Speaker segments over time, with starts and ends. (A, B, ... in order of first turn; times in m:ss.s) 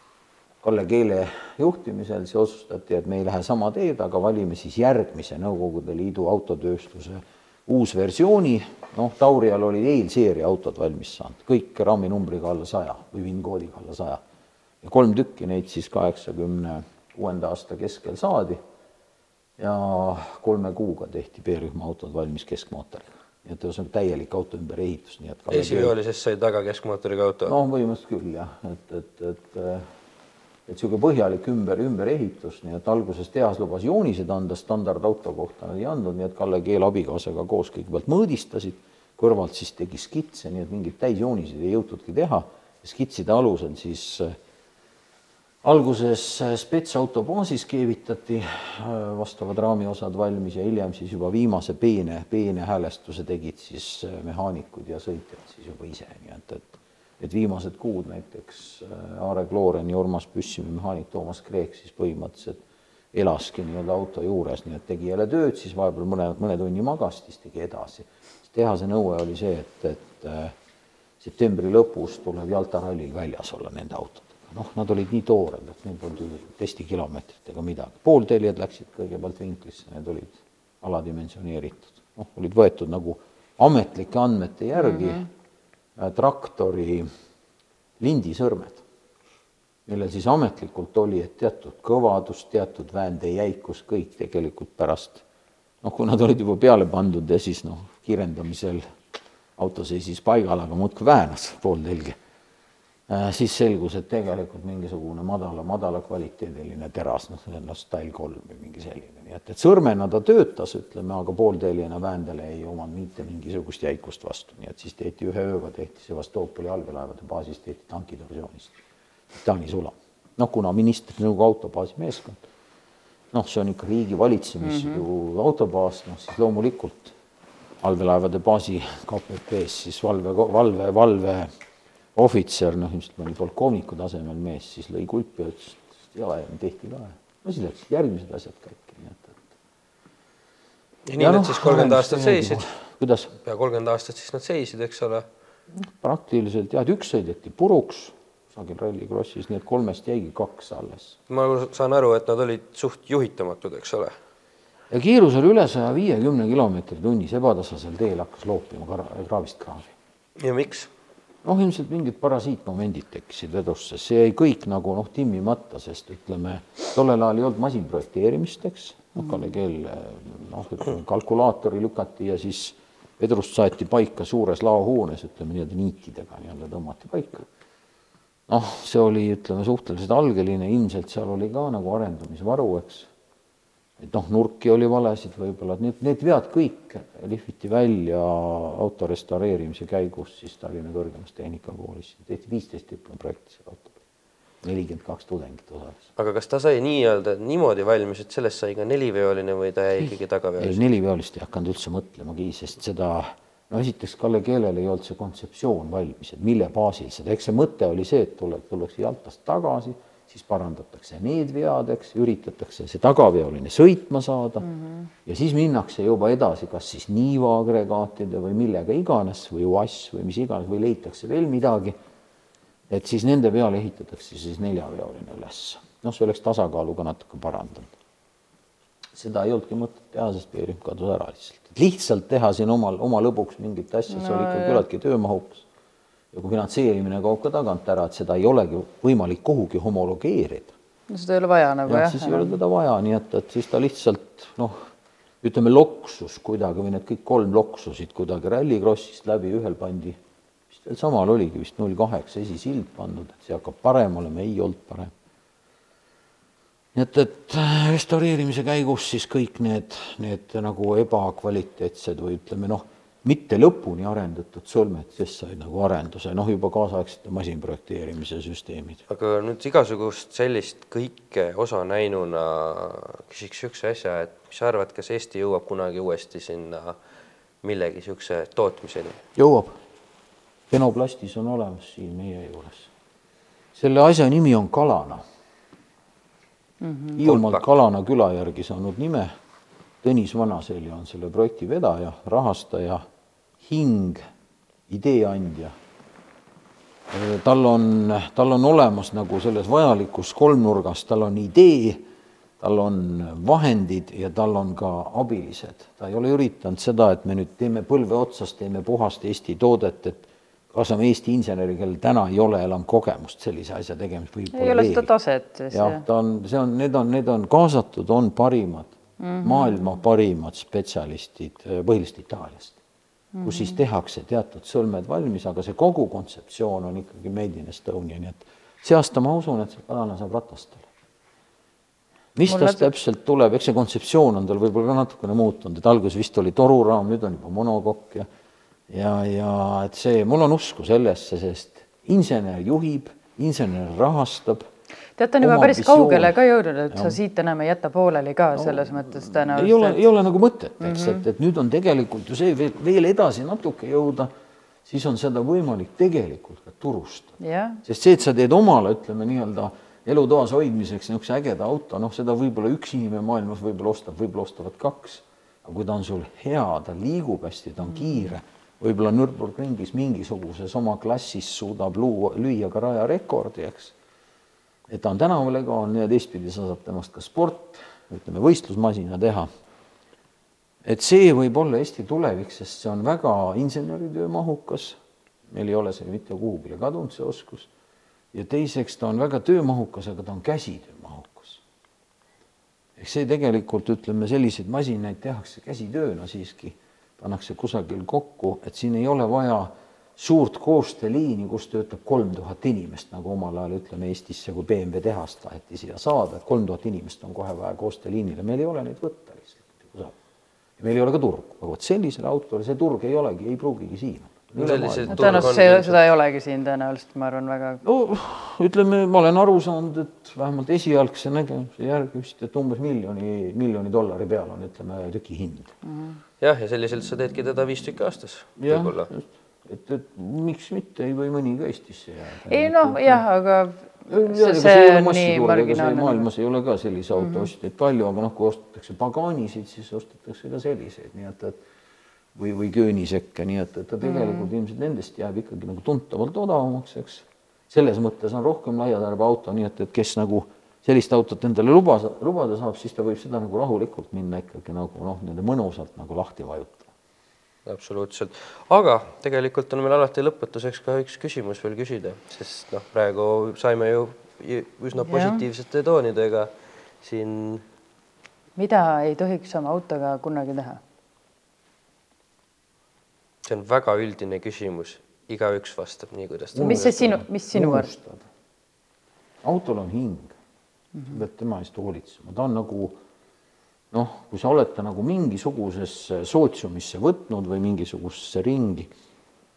0:00.6-0:14.2 A
0:14.8-0:18.6 A
0:19.6-0:25.9 A
0:25.5-0:27.5 B
0:27.4-0:29.8 A
0:30.7-0:44.4 A
0:45.6-1:02.6 A
1:03.1-1:10.5 A
1:11.2-1:25.2 A
1:24.8-1:25.2 C
1:26.0-1:27.1 A
1:28.0-1:28.8 A
1:29.8-1:35.2 A
1:35.8-1:38.8 A
1:39.6-1:42.2 A
1:43.1-1:58.8 A
1:59.3-2:02.4 A
2:03.3-2:07.1 A
2:04.6-2:05.0 C
2:07.8-2:11.5 A
2:12.1-2:19.5 A
2:21.1-2:22.6 B
2:21.2-2:23.3 A
2:23.4-2:25.2 B
2:25.7-2:31.2 A
2:31.3-2:34.1 B
2:34.9-2:39.9 A
2:40.4-2:40.9 B
2:41.4-2:57.4 A
2:58.5-3:03.1 A
3:04.0-3:14.0 A
3:14.6-3:16.0 A
3:16.2-3:20.8 B
3:20.0-3:34.7 A
3:34.6-3:35.1 C
3:35.2-3:42.0 A
3:42.9-3:47.9 A
3:49.1-3:55.6 A
3:54.1-3:54.8 C
3:56.3-4:00.7 A
4:01.1-4:02.6 C
4:01.8-4:04.8 A
4:05.4-4:10.2 A
4:10.7-4:15.1 A
4:16.9-4:29.0 A
4:29.1-4:37.0 B
4:37.6-4:39.2 B
4:39.4-4:39.8 A
4:40.7-4:42.9 A
4:43.7-4:45.2 A
4:46.8-4:47.2 C
4:47.2-4:49.3 A
4:47.2-4:47.6 B
4:50.0-4:53.0 A
4:53.6-4:54.2 A
4:54.9-4:55.7 A
4:57.1-5:02.0 A
5:02.6-5:15.1 A
5:14.5-5:16.0 C
5:15.7-5:22.8 A
5:19.2-5:19.9 C
5:23.3-5:23.8 C
5:23.4-5:30.9 A
5:32.3-5:38.3 A
5:32.5-5:32.9 C
5:38.9-5:44.6 A
5:45.2-5:50.0 C
5:45.4-5:46.4 A
5:46.9-5:47.2 A
5:48.5-5:54.3 A
5:50.8-5:51.2 C
5:54.8-6:13.9 A
5:57.4-5:57.8 C
6:14.9-6:19.5 A
6:20.8-6:25.0 A
6:25.5-6:27.7 A
6:28.3-6:31.6 A
6:33.0-6:50.1 A
6:50.8-6:55.6 A
6:54.6-6:56.0 B
6:55.1-6:57.8 C
6:57.8-7:05.7 A
7:05.8-7:06.2 C
7:06.4-7:09.1 B
7:08.6-7:13.2 A
7:12.5-7:16.2 C
7:14.1-7:21.6 A
7:17.2-7:17.5 C
7:22.3-7:36.9 A
7:24.0-7:24.5 C
7:37.6-7:46.5 B
7:45.0-7:45.4 C
7:47.0-7:47.6 B
7:48.6-7:50.8 C
7:53.4-7:57.0 B
7:56.5-7:58.3 A
7:56.6-7:57.9 C
7:59.4-8:00.3 A
8:01.1-8:03.0 A
8:03.9-8:08.9 A